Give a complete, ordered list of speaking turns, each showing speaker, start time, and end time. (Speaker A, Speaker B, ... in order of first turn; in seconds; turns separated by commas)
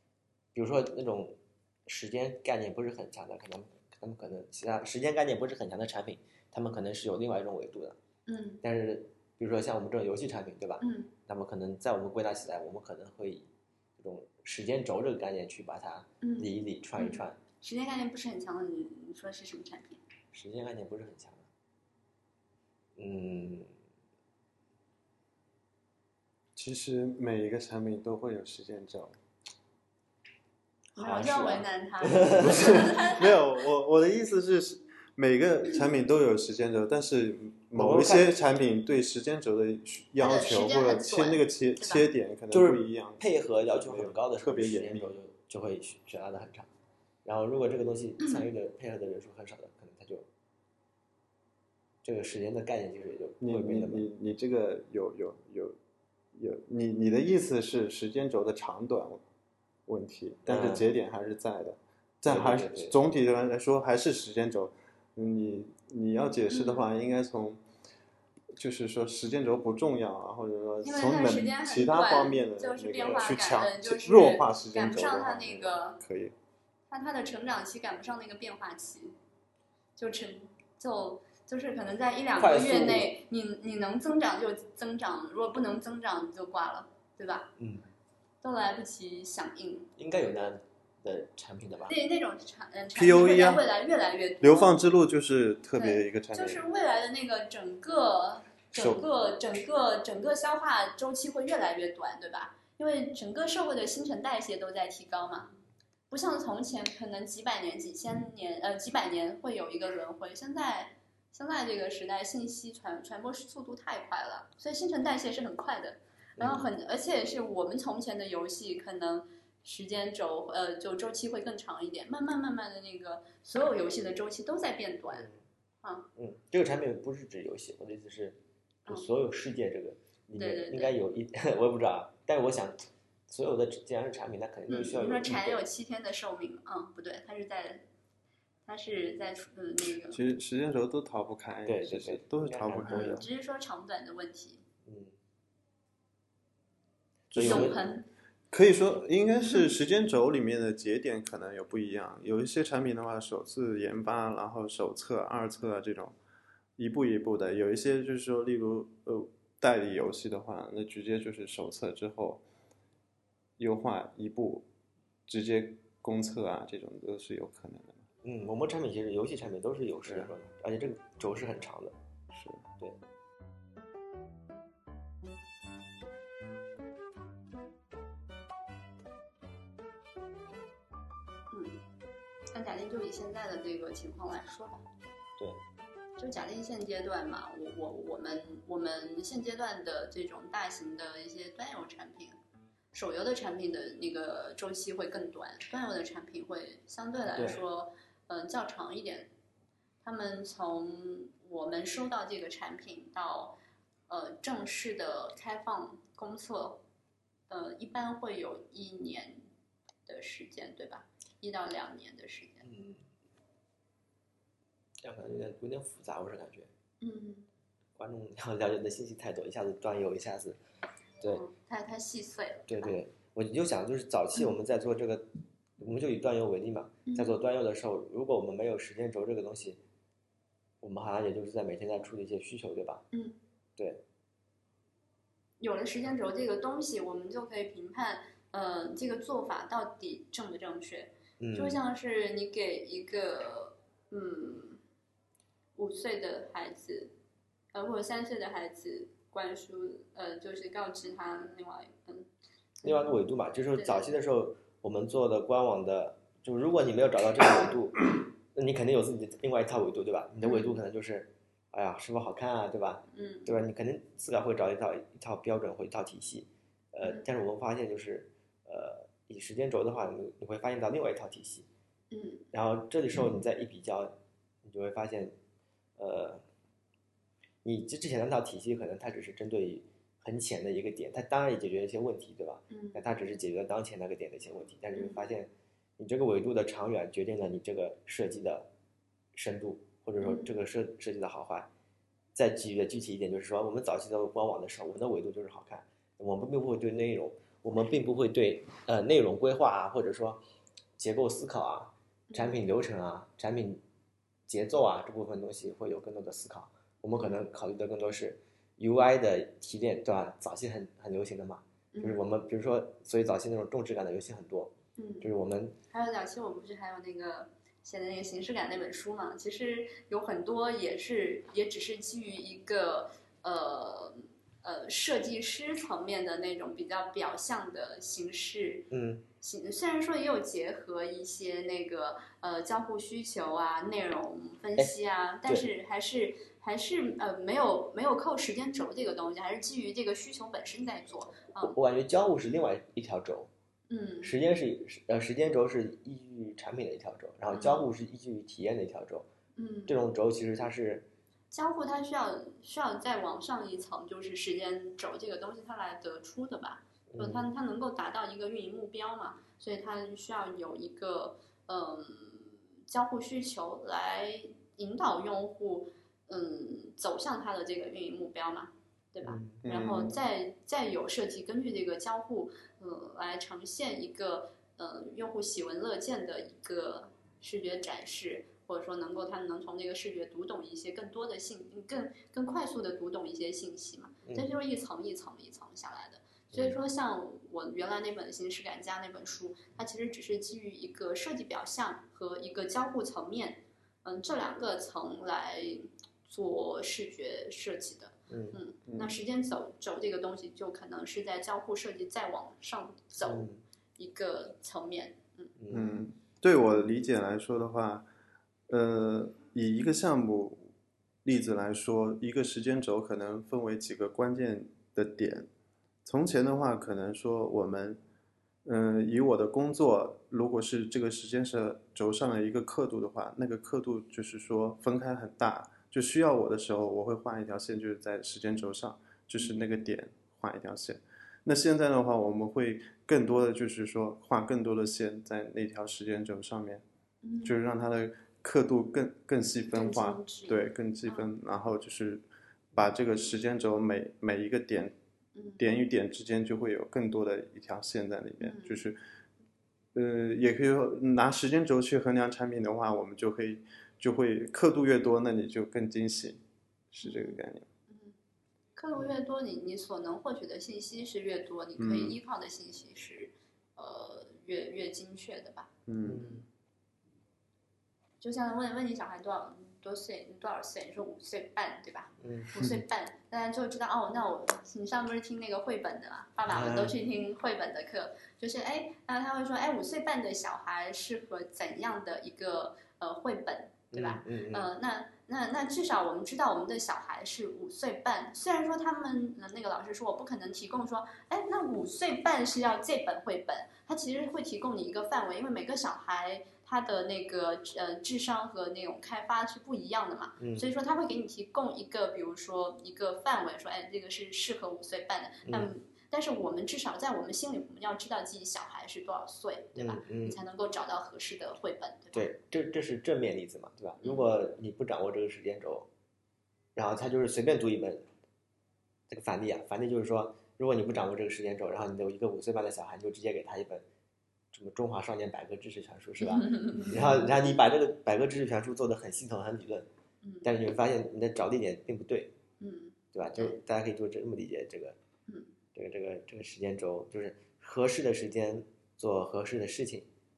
Speaker A: 0.5-8.0, Speaker B: 8.3-8.6, Speaker A: 8.6-17.4, Speaker B: 10.8-11.1, Speaker B: 16.2-20.0, Speaker A: 20.3-21.5, Speaker A: 22.9-23.7, Speaker C: 26.6-29.1, Speaker A: 30.9-32.9, Speaker B: 30.9-33.4, Speaker C: 32.3-45.1, Speaker A: 37.7-38.4, Speaker B: 40.2-42.1, Speaker A: 42.5-46.7, Speaker A: 47.2-50.3, Speaker A: 52.0-54.1, Speaker C: 53.4-55.8, Speaker C: 56.3-59.2, Speaker C: 59.9-67.6, Speaker A: 60.5-60.9, Speaker A: 62.2-63.0, Speaker B: 66.5-66.9, Speaker C: 68.5-76.3, Speaker B: 70.8-76.0, Speaker B: 76.9-79.1, Speaker B: 80.0-87.5, Speaker A: 82.4-83.2, Speaker A: 87.6-87.8, Speaker B: 88.4-89.9, Speaker A: 90.0-92.0, Speaker B: 91.9-94.8, Speaker C: 92.9-93.6, Speaker C: 94.4-96.6, Speaker B: 95.8-105.5, Speaker C: 98.8-99.0, Speaker B: 106.1-125.3, Speaker A: 116.4-116.7, Speaker A: 125.1-125.4, Speaker B: 125.8-126.1, Speaker A: 126.2-135.6, Speaker B: 130.4-130.9, Speaker B: 134.7-137.8, Speaker B: 138.7-140.2, Speaker C: 140.1-143.3, Speaker A: 141.7-143.3, Speaker B: 142.9-144.6, Speaker A: 144.8-145.1, Speaker C: 147.3-147.8, Speaker A: 147.3-147.8, Speaker B: 147.4-148.1, Speaker C: 148.5-156.1, Speaker C: 156.8-162.4, Speaker C: 163.6-164.7, Speaker C: 165.3-168.0, Speaker A: 168.2-171.9, Speaker C: 172.3-172.6, Speaker B: 181.5-181.8, Speaker B: 182.5-184.8, Speaker B: 186.2-192.3, Speaker B: 192.9-199.3, Speaker A: 197.3-197.6, Speaker B: 200.0-203.6, Speaker B: 204.1-206.8, Speaker B: 207.5-209.4, Speaker B: 210.1-212.7, Speaker A: 212.6-213.0, Speaker A: 215.0-216.7, Speaker B: 217.0-217.5, Speaker A: 218.0-220.6, Speaker B: 221.2-222.9, Speaker A: 222.7-225.3, Speaker A: 225.8-229.8, Speaker B: 227.1-227.4, Speaker A: 230.8-233.1, Speaker B: 233.1-233.4, Speaker A: 233.8-234.0, Speaker B: 235.6-244.8, Speaker A: 241.4-241.8, Speaker B: 245.8-247.1, Speaker B: 247.7-252.3, Speaker B: 252.8-253.1, Speaker A: 252.8-271.7, Speaker B: 253.7-254.1, Speaker B: 260.4-260.8, Speaker B: 263.1-263.5, Speaker B: 272.1-272.4, Speaker A: 272.5-275.3, Speaker A: 276.0-276.4, Speaker A: 277.6-288.7, Speaker B: 282.7-283.0, Speaker B: 284.9-285.2, Speaker A: 289.3-291.7, Speaker B: 290.2-290.5, Speaker A: 292.3-300.4, Speaker A: 301.0-303.8, Speaker B: 302.3-302.6, Speaker A: 304.5-315.8, Speaker B: 311.9-312.2, Speaker B: 315.0-315.3, Speaker B: 315.9-341.7, Speaker A: 328.9-329.2, Speaker A: 341.6-343.5, Speaker B: 343.9-344.3, Speaker A: 344.2-349.3, Speaker B: 347.5-347.9, Speaker B: 349.6-349.9, Speaker A: 349.9-351.1, Speaker B: 351.5-405.5, Speaker A: 357.1-357.5, Speaker A: 369.2-369.6, Speaker C: 369.6-370.1, Speaker A: 386.5-386.8, Speaker A: 398.3-398.6, Speaker C: 398.9-399.1, Speaker A: 403.2-403.6, Speaker A: 405.6-406.0, Speaker C: 405.7-408.1, Speaker C: 408.7-410.7, Speaker C: 411.2-415.5, Speaker C: 416.0-418.0, Speaker C: 418.6-436.8, Speaker B: 437.2-437.5, Speaker C: 437.4-444.9, Speaker B: 439.7-441.3, Speaker B: 445.3-445.6, Speaker C: 445.6-449.0, Speaker B: 448.4-448.8, Speaker C: 449.9-456.4, Speaker C: 456.9-457.6, Speaker B: 457.0-458.1, Speaker B: 458.8-465.7, Speaker C: 461.8-462.2, Speaker C: 465.9-466.4, Speaker A: 466.0-466.4, Speaker B: 468.2-512.3, Speaker A: 472.2-472.5, Speaker A: 476.5-477.0, Speaker A: 483.9-484.7, Speaker A: 500.4-500.7, Speaker A: 505.4-505.7, Speaker A: 509.8-510.4, Speaker A: 512.1-515.9, Speaker B: 514.0-514.3, Speaker A: 516.7-518.0, Speaker A: 519.1-523.8, Speaker A: 524.5-529.9, Speaker B: 526.2-526.9, Speaker B: 530.2-530.5, Speaker A: 530.4-532.3, Speaker B: 532.6-533.6, Speaker A: 533.1-535.0, Speaker A: 535.7-540.1